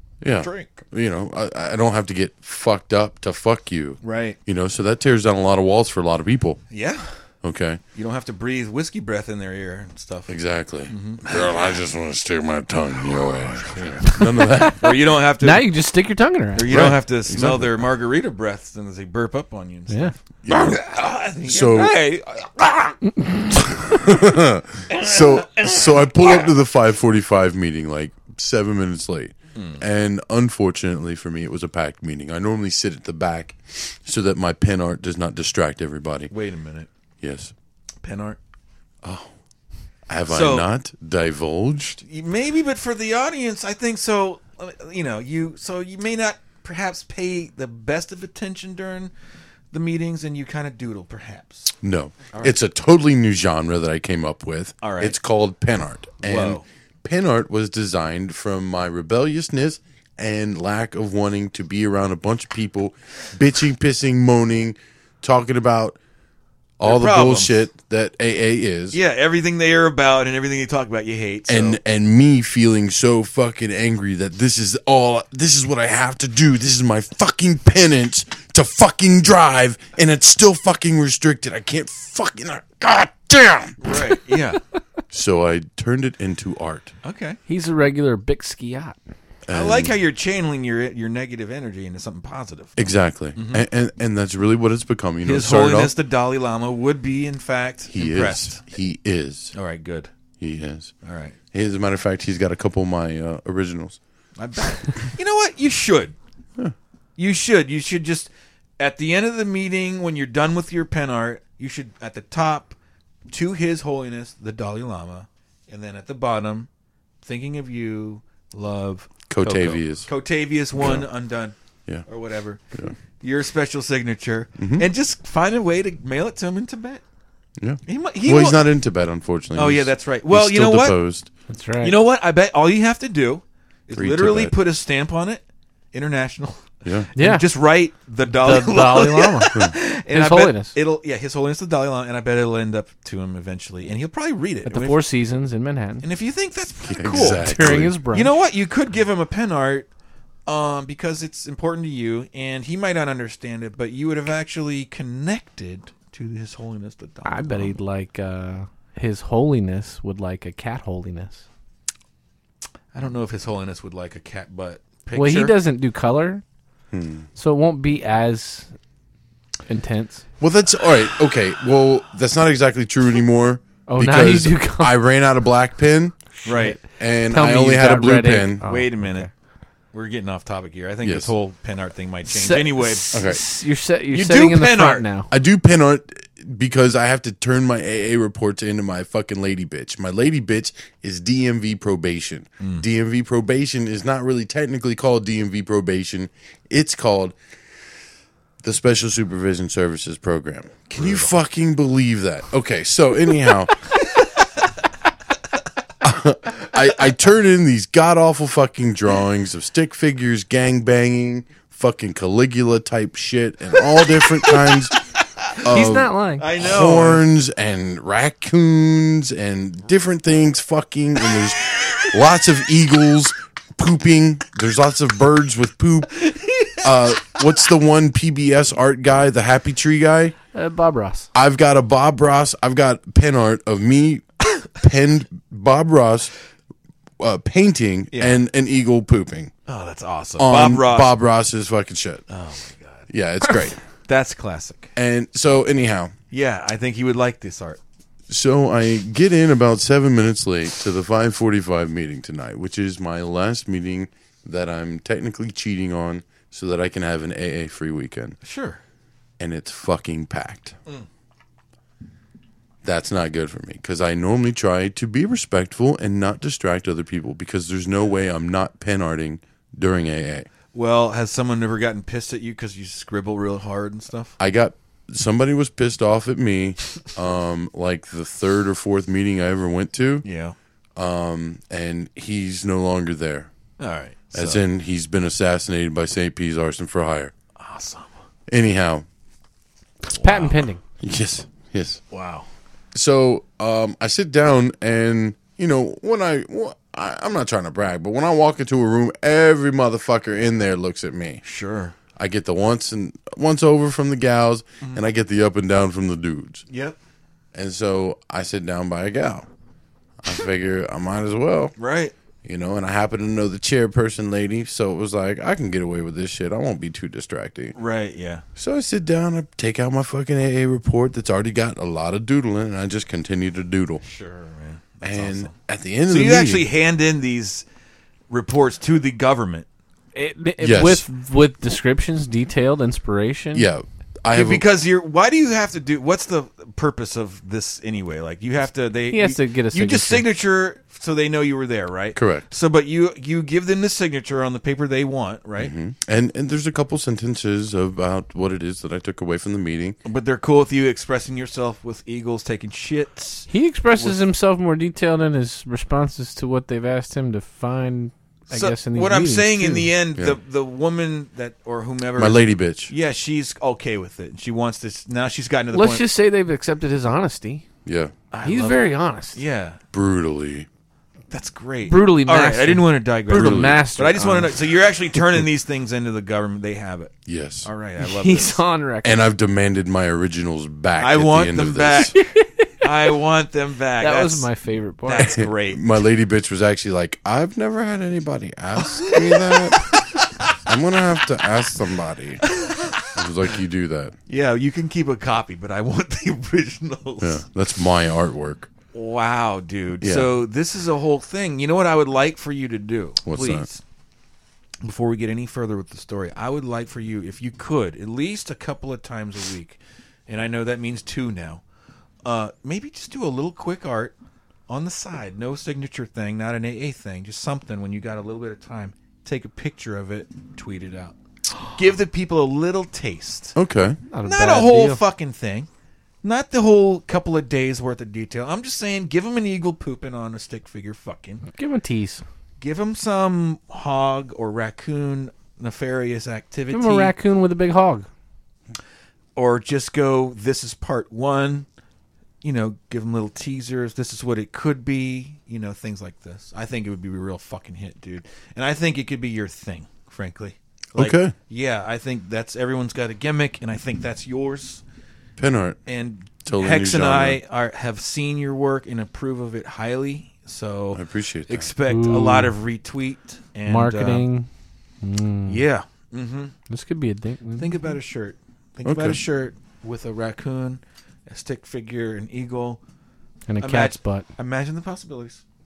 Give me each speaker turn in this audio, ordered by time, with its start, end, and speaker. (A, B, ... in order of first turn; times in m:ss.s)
0:00.2-0:06.6 A
0:00.3-0:00.7 B
0:04.0-0:04.4 B
0:06.7-0:07.1 B
0:07.4-0:07.8 A
0:07.9-0:11.3 B
0:10.3-0:15.0 A
0:14.1-0:14.7 C
0:14.8-0:15.7 B
0:15.4-0:16.7 C
0:16.5-0:23.0 B
0:16.7-0:17.8 A
0:20.4-0:20.8 A
0:21.4-0:22.0 A
0:23.2-0:23.6 C
0:23.8-0:36.3 A
0:24.9-0:26.5 B
0:29.5-0:29.8 B
0:36.3-0:36.9 B
0:37.2-0:37.5 A
0:38.0-0:38.4 B
0:39.0-0:39.3 A
0:40.1-0:42.0 A
0:40.3-0:40.7 B
0:42.0-0:49.1 B
0:49.7-0:51.7 B
0:51.8-1:06.0 A
0:54.8-0:55.2 B
0:56.2-0:56.6 B
1:06.8-1:09.0 A
1:06.8-1:07.6 B
1:08.9-1:11.8 B
1:11.5-1:23.8 A
1:23.8-1:24.6 B
1:25.1-1:26.9 A
1:27.0-1:27.4 B
1:27.5-1:29.0 C
1:29.4-1:29.9 A
1:29.5-1:33.6 B
1:32.8-1:35.9 A
1:35.2-1:38.6 B
1:37.9-1:39.5 A
1:39.5-1:40.1 B
1:40.4-1:40.9 A
1:41.0-1:41.4 B
1:41.5-1:44.0 A
1:44.4-1:46.1 B
1:47.2-1:52.8 B
1:53.3-1:56.7 B
1:57.2-2:01.5 B
1:59.3-2:00.1 A
2:00.8-2:01.1 A
2:02.0-2:07.0 B
2:04.6-2:04.9 A
2:07.6-2:11.3 A
2:07.8-2:08.6 B
2:09.5-2:11.0 B
2:11.5-2:11.9 C
2:11.8-2:25.0 B
2:13.9-2:14.5 A
2:17.2-2:17.4 C
2:18.3-2:20.7 C
2:24.6-2:26.0 C
2:26.0-2:29.9 B
2:26.8-2:28.0 A
2:27.2-2:28.4 C
2:30.4-2:37.7 B
2:37.2-2:41.4 C
2:42.9-2:45.6 B
2:45.1-2:46.4 C
2:46.9-2:47.3 A
2:47.4-2:48.7 C
2:49.7-2:50.2 C
2:50.4-2:56.2 A
2:53.9-2:55.0 C
2:56.4-2:59.3 C
2:56.4-2:56.8 B
2:56.8-2:58.6 A
2:58.6-2:59.3 B
2:59.9-3:03.2 B
3:01.0-3:01.3 A
3:02.3-3:05.3 C
3:03.1-3:03.4 A
3:04.1-3:05.0 B
3:05.3-3:17.4 A
3:12.6-3:12.8 B
3:18.6-3:23.9 A
3:21.0-3:21.3 B
3:26.0-3:35.0 A
3:35.6-3:46.2 A
3:35.7-3:36.5 C
3:36.4-3:37.2 B
3:46.2-3:46.8 B
3:46.7-3:50.3 A
3:50.5-3:51.3 C
3:51.3-3:56.3 A
3:57.2-3:59.5 A
3:58.1-3:58.4 B
3:59.7-4:01.2 B
4:00.4-4:02.2 A
4:02.3-4:03.1 B
4:03.1-4:03.8 A
4:04.1-4:04.9 B
4:05.0-4:06.1 A
4:06.3-4:07.8 B
4:08.3-4:18.4 A
4:18.4-4:18.8 B
4:19.4-4:20.8 A
4:22.8-4:30.5 A
4:30.7-4:34.4 B
4:34.4-4:40.2 A
4:40.2-4:40.6 B
4:41.0-4:43.5 A
4:43.8-4:44.6 B
4:44.3-4:47.3 A
4:47.6-4:48.1 B
4:48.5-4:49.0 A
4:50.0-4:50.8 C
4:50.1-4:50.6 B
4:51.0-4:52.0 A
4:52.1-4:52.5 B
4:52.9-5:01.4 A
5:01.4-5:01.9 B
5:02.2-5:06.6 A
5:06.7-5:07.0 B
5:07.5-5:09.5 A
5:10.2-5:11.7 A
5:11.8-5:12.1 B
5:12.4-5:17.8 A
5:17.7-5:18.4 B
5:18.6-5:24.0 A
5:24.0-5:25.5 B
5:25.0-5:26.6 A
5:26.1-5:27.6 B
5:28.3-5:29.7 B
5:30.1-5:33.7 C
5:30.6-5:31.0 A
5:33.5-5:34.6 A
5:34.3-5:45.7 B
5:39.1-5:40.2 C
5:42.1-5:42.4 A
5:45.6-5:50.0 A
5:50.0-5:54.2 B
5:53.5-5:59.9 C
5:58.5-6:06.0 B
6:02.1-6:02.9 A
6:05.7-6:07.6 C
6:07.8-6:08.1 A
6:08.3-6:09.8 B
6:08.4-6:09.4 C
6:09.9-6:10.7 A
6:11.3-6:18.6 B
6:11.9-6:14.5 C
6:13.3-6:13.8 A
6:17.2-6:17.7 A
6:18.0-6:19.2 C
6:19.0-6:22.1 A
6:21.0-6:22.2 B
6:22.1-6:22.8 C
6:22.8-6:24.5 B
6:24.0-6:25.3 C
6:25.1-6:25.8 B
6:25.2-6:30.0 A
6:29.0-6:30.0 B
6:30.6-6:34.1 A
6:32.5-6:33.0 B
6:34.3-6:37.4 B
6:37.2-6:38.7 A
6:38.9-6:43.8 B
6:40.0-6:40.3 A
6:43.2-6:43.7 A
6:44.8-6:51.6 B
6:52.2-6:54.1 B
6:54.7-7:01.2 B
7:01.7-7:03.6 B
7:03.5-7:04.0 A
7:04.1-7:05.0 C
7:04.2-7:05.7 B
7:06.2-7:11.4 B
7:11.5-7:12.2 C
7:12.6-7:17.1 B
7:16.7-7:18.1 C
7:19.4-7:21.6 B
7:22.4-7:34.8 B
7:30.9-7:31.3 A
7:35.4-7:35.8 A
7:35.8-7:44.2 B
7:36.4-7:37.4 A
7:40.9-7:41.7 A
7:41.8-7:42.5 C
7:43.6-7:44.5 C
7:45.0-7:45.6 C
7:45.5-7:46.5 B
7:46.7-7:47.8 C
7:47.6-7:52.8 B
7:48.8-7:49.2 A
7:53.5-7:54.2 C
7:53.6-7:55.4 B